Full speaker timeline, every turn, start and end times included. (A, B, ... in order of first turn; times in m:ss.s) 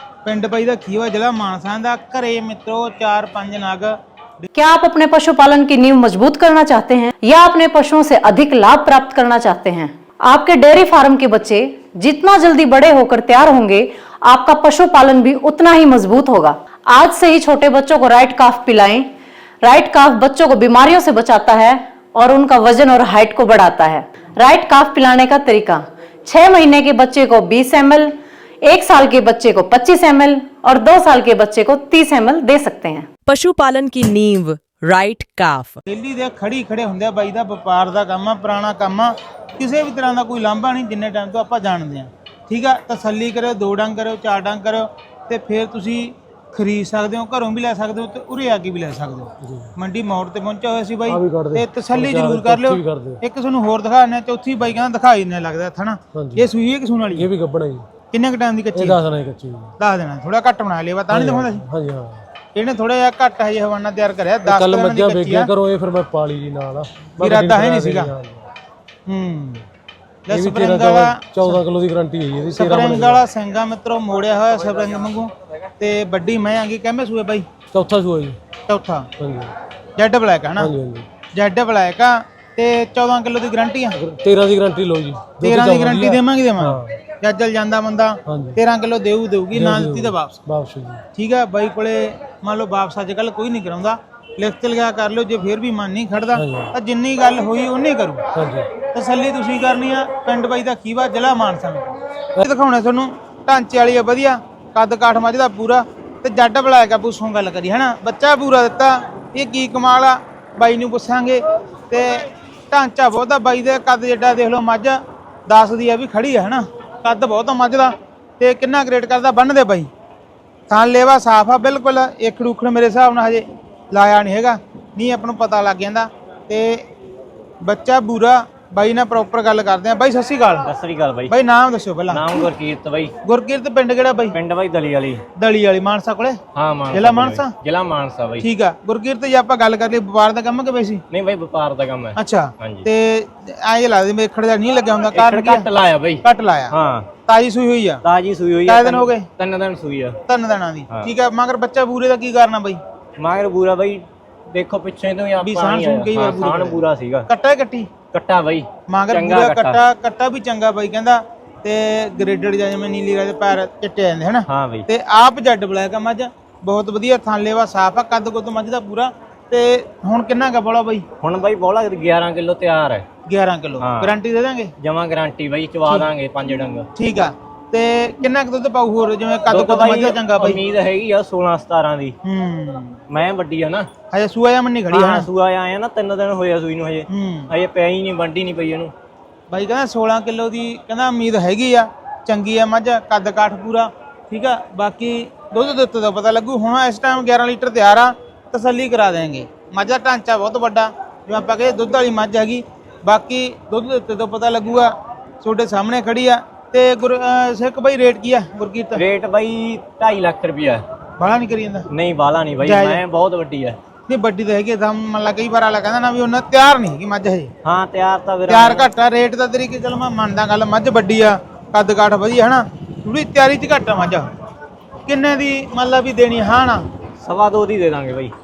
0:00.2-0:04.5 A
0:04.5-0:19.1 B
0:19.6-0:33.1 B
0:33.2-0:35.8 C
0:35.8-0:57.3 A
0:49.4-0:49.7 D
0:51.1-0:53.2 D
0:56.1-0:56.5 D
0:57.1-0:57.8 D
0:58.1-0:59.0 A
0:58.7-0:59.7 D
0:59.8-1:01.6 A
1:01.1-1:02.2 D
1:02.5-1:05.5 A
1:04.4-1:08.4 D
1:07.2-1:08.1 A
1:09.1-1:09.6 A
1:10.3-1:11.6 A
1:10.3-1:13.2 D
1:12.5-1:17.4 A
1:17.7-1:18.4 D
1:18.7-1:19.1 A
1:19.2-1:19.5 D
1:20.0-1:20.7 A
1:20.6-1:21.1 D
1:21.3-1:24.0 A
1:24.0-1:27.0 D
1:25.4-1:30.3 A
1:28.2-1:28.6 D
1:29.5-1:31.0 D
1:31.2-1:38.2 A
1:36.3-1:36.7 D
1:38.3-1:38.7 D
1:38.8-1:59.9 A
2:00.7-2:06.8 A
2:07.6-2:10.7 A
2:10.6-2:11.3 E
2:11.3-2:12.5 A
2:12.1-2:13.1 E
2:13.2-2:14.4 A
2:14.3-2:15.2 E
2:15.4-2:17.6 A
2:16.5-2:18.5 E
2:18.4-2:21.0 A
2:21.1-2:22.9 E
2:22.2-2:26.7 A
2:25.1-2:27.1 E
2:27.2-2:28.0 A
2:28.0-2:30.2 E
2:28.6-2:29.3 A
2:30.2-2:32.8 A
2:33.2-2:37.3 E
2:35.4-2:37.9 A
2:38.1-2:39.8 E
2:38.9-2:51.0 A
2:44.5-2:44.9 E
2:51.2-2:53.0 E
2:53.3-2:54.7 A
2:53.8-2:54.1 E
2:54.8-2:56.9 E
2:55.8-2:56.1 A
2:57.0-3:00.6 A
2:59.5-3:02.1 E
3:02.2-3:03.0 A
3:03.1-3:03.9 E
3:04.1-3:05.3 A
3:05.0-3:08.9 E
3:07.1-3:07.5 A
3:09.5-3:29.0 A
3:28.9-3:30.8 E
3:31.2-3:31.9 A
3:31.9-3:33.8 E
3:32.6-3:33.0 A
3:34.1-3:37.5 A
3:37.6-3:38.8 E
3:38.5-3:44.3 A
3:45.1-3:46.8 A
3:47.2-3:48.3 E